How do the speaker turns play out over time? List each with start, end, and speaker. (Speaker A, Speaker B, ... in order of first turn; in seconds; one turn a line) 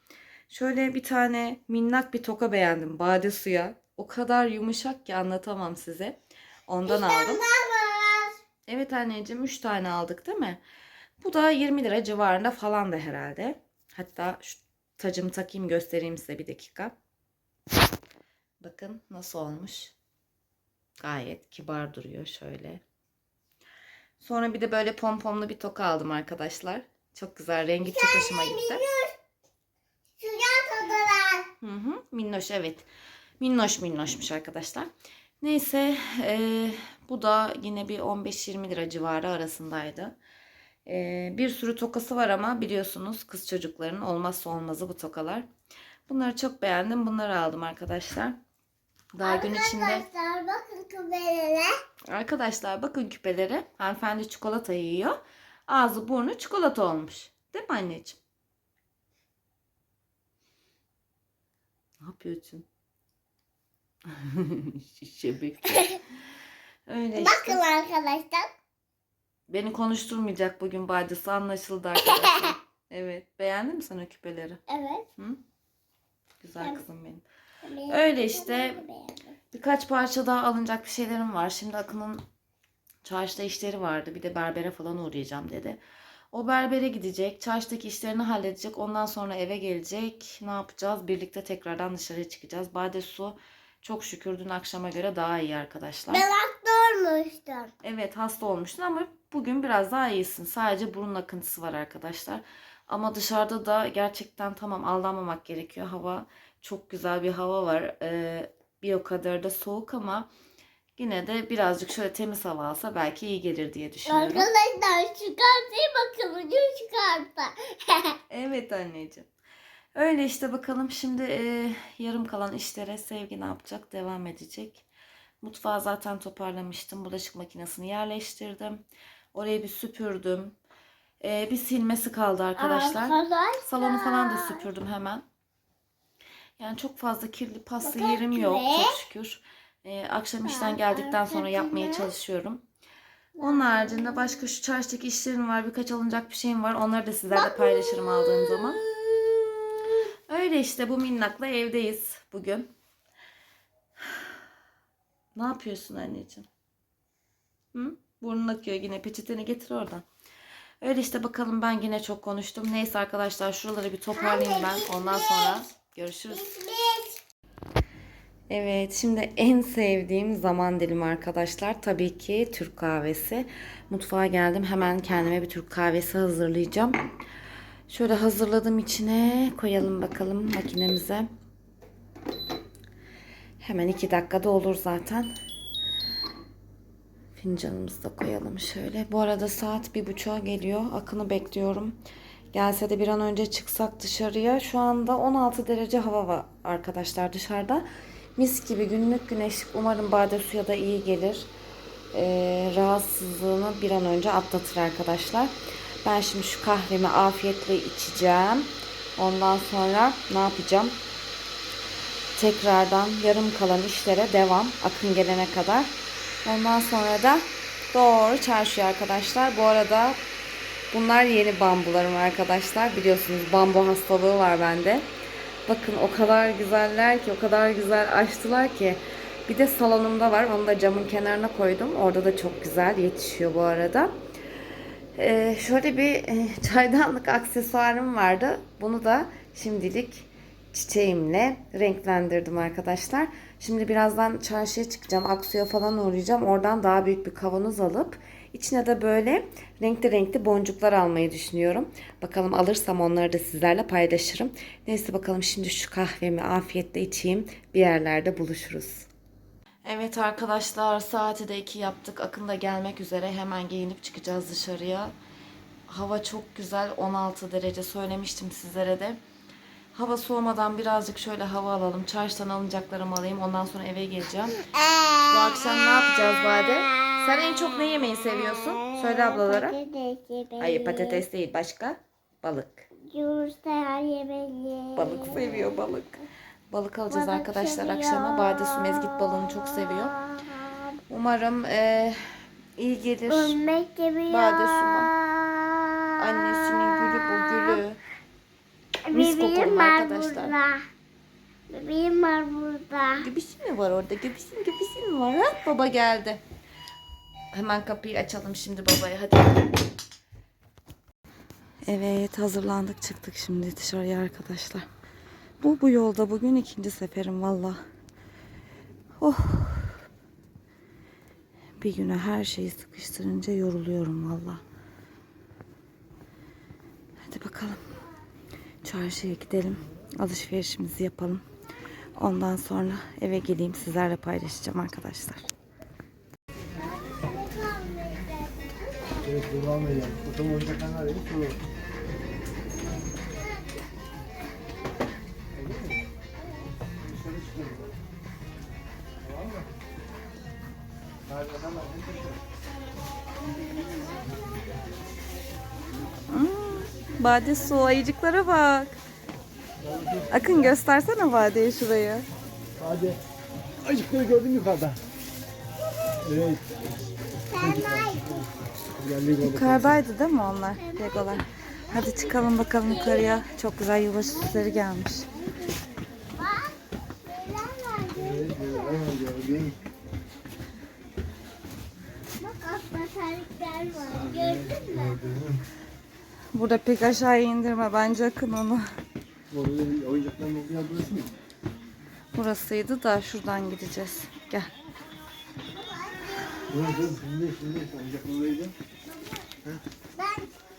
Speaker A: 0.5-7.5
Speaker B: 6.8-8.4
Speaker A: 8.7-10.6
Speaker A: 11.2-16.9
Speaker A: 18.6-19.9
Speaker A: 21.0-22.8
Speaker A: 24.2-28.8
Speaker B: 27.9-29.2
Speaker B: 30.2-31.5
Speaker A: 31.6-32.9
Speaker A: 33.4-34.9
Speaker A: 35.4-40.1
Speaker A: 40.9-45.5
Speaker A: 46.1-48.4
Speaker A: 49.1-50.1
Speaker B: 49.2-51.7
Speaker A: 52.1-58.2
Speaker A: 62.0-62.7
Speaker A: 64.1-66.0
Speaker A: 66.9-67.6
Speaker B: 67.2-68.5
Speaker A: 69.5-74.6
Speaker B: 74.7-75.1
Speaker A: 76.4-77.2
Speaker B: 77.7-79.4
Speaker A: 77.9-78.8
Speaker A: 79.5-82.2
Speaker A: 83.0-85.8
Speaker A: 86.3-96.3
Speaker B: 96.1-97.7
Speaker A: 97.8-110.3
Speaker A: 111.0-114.5
Speaker B: 114.1-118.2
Speaker A: 118.3-119.3
Speaker A: 120.0-124.8
Speaker A: 125.4-128.8
Speaker A: 129.3-130.6
Speaker A: 131.2-135.2
Speaker B: 132.6-134.7
Speaker A: 136.6-142.6
Speaker B: 137.8-138.9
Speaker B: 140.4-142.1
Speaker B: 143.4-144.4
Speaker A: 143.4-148.8
Speaker B: 147.3-150.0
Speaker A: 150.3-152.7
Speaker A: 155.4-156.5
Speaker A: 157.7-160.0
Speaker A: 160.8-166.5
Speaker B: 164.2-165.6
Speaker B: 166.3-167.2
Speaker A: 168.5-177.0
Speaker A: 177.9-181.3
Speaker A: 183.6-185.3
Speaker A: 187.4-192.0
Speaker A: 192.5-197.8
Speaker A: 198.4-201.5
Speaker A: 202.1-205.5
Speaker A: 206.0-211.0
Speaker A: 212.4-215.9
Speaker A: 216.4-220.2
Speaker A: 220.9-225.1
Speaker A: 225.7-234.1
Speaker A: 235.2-259.1
Speaker A: 259.9-265.1
Speaker A: 265.9-269.2
Speaker A: 269.9-274.6
Speaker A: 275.3-279.8
Speaker B: 278.8-281.2
Speaker A: 280.6-282.9
Speaker B: 283.1-285.8
Speaker A: 284.9-290.2
Speaker B: 287.1-291.0
Speaker A: 291.1-292.2
Speaker A: 292.8-293.6
Speaker B: 293.3-297.8
Speaker A: 294.3-295.1
Speaker A: 296.2-298.0
Speaker B: 299.1-300.9
Speaker A: 299.1-300.6
Speaker B: 301.7-303.3
Speaker A: 303.2-306.4
Speaker A: 307.5-309.8
Speaker A: 311.9-314.9
Speaker A: 315.6-317.8
Speaker A: 319.2-320.1
Speaker A: 321.8-324.6
Speaker A: 327.3-327.8
Speaker A: 328.8-331.4
Speaker A: 332.2-335.4
Speaker B: 336.8-339.4
Speaker C: 339.3-341.6
Speaker C: 345.6-345.9
Speaker B: 346.4-346.7
Speaker C: 347.0-347.9
Speaker C: 351.3-352.4
Speaker A: 356.3-359.0
Speaker C: 359.9-360.3
Speaker A: 360.3-362.3
Speaker C: 362.8-363.2
Speaker C: 363.8-365.0
Speaker C: 366.2-366.6
Speaker B: 367.3-368.5
Speaker C: 367.6-370.0
Speaker A: 369.4-375.3
Speaker B: 370.5-373.5
Speaker B: 374.1-379.2
Speaker C: 378.2-379.8
Speaker B: 382.4-385.2
Speaker C: 384.2-385.6
Speaker A: 386.5-388.9
Speaker C: 389.5-391.3
Speaker A: 392.4-394.7
Speaker B: 395.7-397.2
Speaker C: 396.7-398.7
Speaker B: 400.2-400.6